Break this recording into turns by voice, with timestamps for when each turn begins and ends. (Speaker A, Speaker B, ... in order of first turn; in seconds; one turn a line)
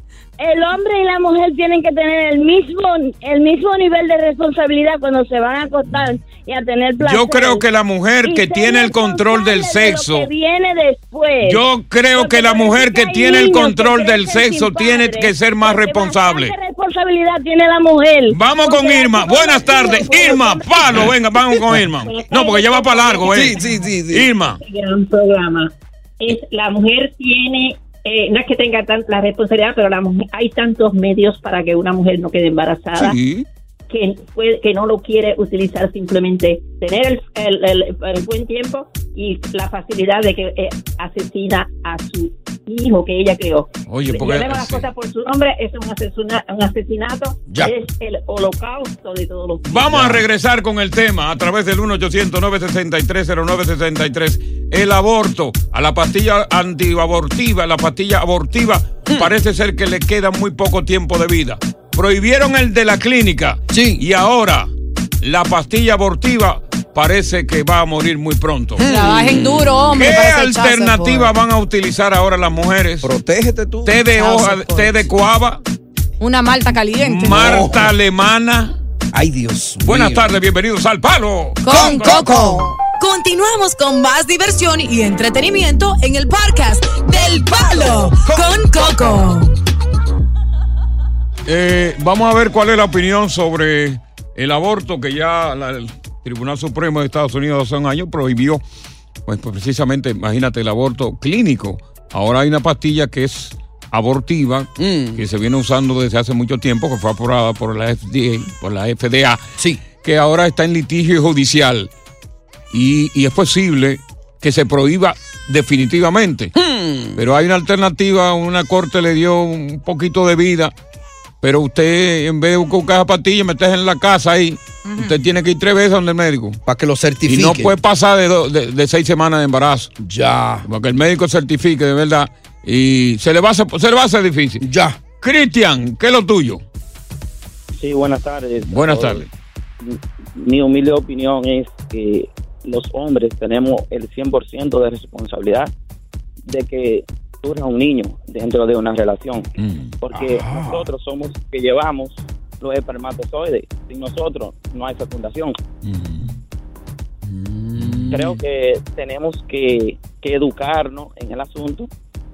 Speaker A: 0.4-7.6
Speaker B: 7.0-10.3
Speaker A: 8.2-11.6
Speaker B: 11.4-16.5
Speaker A: 12.1-20.9
Speaker B: 18.3-23.6
Speaker C: 21.0-21.8
Speaker D: 22.2-23.2
Speaker C: 23.3-24.3
Speaker B: 24.1-24.6
Speaker D: 24.6-33.1
Speaker B: 32.9-33.5
Speaker D: 33.9-50.0
Speaker B: 43.9-44.8
Speaker C: 47.5-47.8
Speaker B: 49.7-64.7
Speaker C: 49.8-50.2
Speaker C: 63.7-64.0
Speaker B: 65.2-68.8
Speaker C: 68.8-69.8
Speaker E: 68.8-71.3
Speaker B: 69.9-73.1
Speaker C: 73.0-74.0
Speaker B: 73.8-75.6
Speaker E: 74.2-74.9
Speaker E: 76.2-77.4
Speaker B: 77.0-78.8
Speaker C: 77.2-77.9
Speaker C: 79.1-80.3
Speaker B: 79.8-82.1
Speaker E: 81.6-89.5
Speaker C: 81.7-82.8
Speaker C: 88.0-88.4
Speaker B: 91.5-98.6
Speaker B: 99.2-109.4
Speaker C: 104.8-105.2
Speaker B: 110.0-111.9
Speaker B: 112.7-116.5
Speaker C: 116.5-117.2
Speaker B: 117.2-120.7
Speaker B: 121.4-126.6
Speaker E: 124.8-125.2
Speaker C: 126.7-127.7
Speaker B: 127.3-129.9
Speaker C: 130.0-130.6
Speaker B: 130.7-134.6
Speaker C: 134.6-135.0
Speaker B: 135.2-136.6
Speaker F: 137.8-139.2
Speaker B: 138.7-139.3
Speaker F: 139.8-145.7
Speaker F: 146.4-149.5
Speaker B: 149.6-149.9
Speaker F: 150.0-155.5
Speaker C: 150.1-150.9
Speaker B: 155.8-156.3
Speaker C: 157.3-158.3
Speaker B: 157.8-158.3
Speaker F: 158.1-161.9